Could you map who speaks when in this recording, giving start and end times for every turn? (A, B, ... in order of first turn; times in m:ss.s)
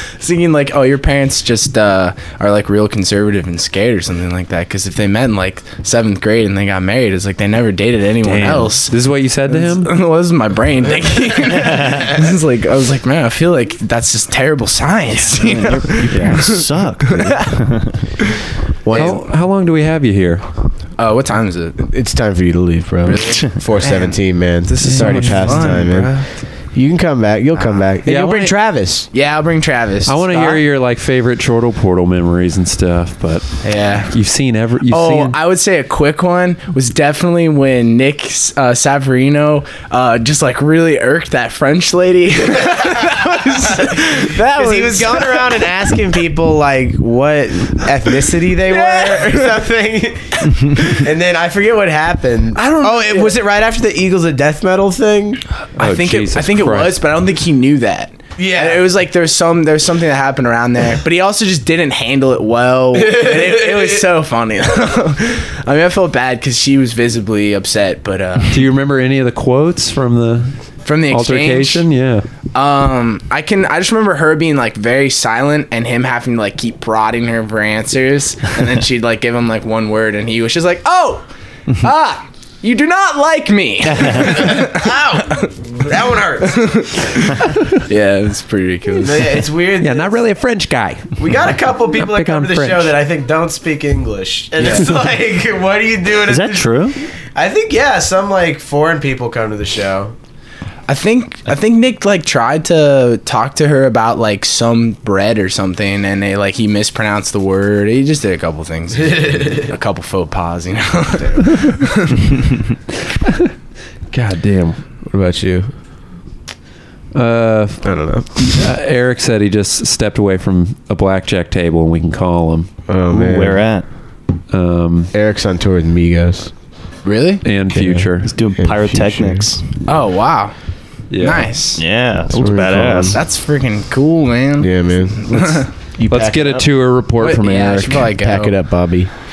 0:00.2-0:09.0 A
0:08.2-0:09.9 B
0:09.5-0:17.5 A
0:15.2-0:18.0 C
0:16.1-0:16.6 B
0:18.8-0:19.2 D
0:18.9-0:20.4 B
0:21.0-0:21.8 A
0:21.8-0:29.1 D
0:23.8-0:24.2 A
0:24.8-0:25.8 B
0:24.9-0:26.2 A
0:27.6-0:28.2 A
0:28.0-0:28.5 B
0:29.1-0:30.6 A
0:30.0-0:35.4 B
0:33.6-0:34.1 A
0:34.9-0:45.6 A
0:43.5-0:55.4 D
0:48.6-0:49.6 A
0:52.5-0:53.4 A
0:55.8-1:08.6 A
0:55.8-0:57.0 B
0:58.4-0:58.8 D
1:02.9-1:04.0 D
1:08.5-1:10.6 B
1:10.8-1:11.8 A
1:11.1-1:12.2 B
1:12.5-1:21.2 A
1:21.8-1:25.5 A
1:23.9-1:24.4 C
1:24.2-1:26.9 D
1:26.4-1:29.4 A
1:29.0-1:30.3 D
1:29.8-1:32.9 B
1:31.2-1:40.1 D
1:36.2-1:37.0 C
1:40.9-1:52.4 A
1:49.2-1:49.5 D
1:54.1-1:54.8 B
1:55.0-1:55.7 D
1:57.1-2:02.7 B
1:57.8-1:58.6 D
2:02.9-2:03.7 D
2:03.1-2:03.8 C
2:04.5-2:05.1 B
2:05.1-2:06.5 D
2:07.0-2:07.4 A
2:07.4-2:08.3 B
2:07.7-2:09.5 D
2:08.2-2:09.6 C
2:09.9-2:10.5 A
2:11.1-2:11.5 B
2:11.2-2:11.8 A
2:11.8-2:13.2 C
2:12.3-2:13.2 D
2:13.1-2:15.7 A
2:14.6-2:16.6 D
2:16.1-2:18.1 B
2:17.2-2:18.6 A
2:18.2-2:19.1 D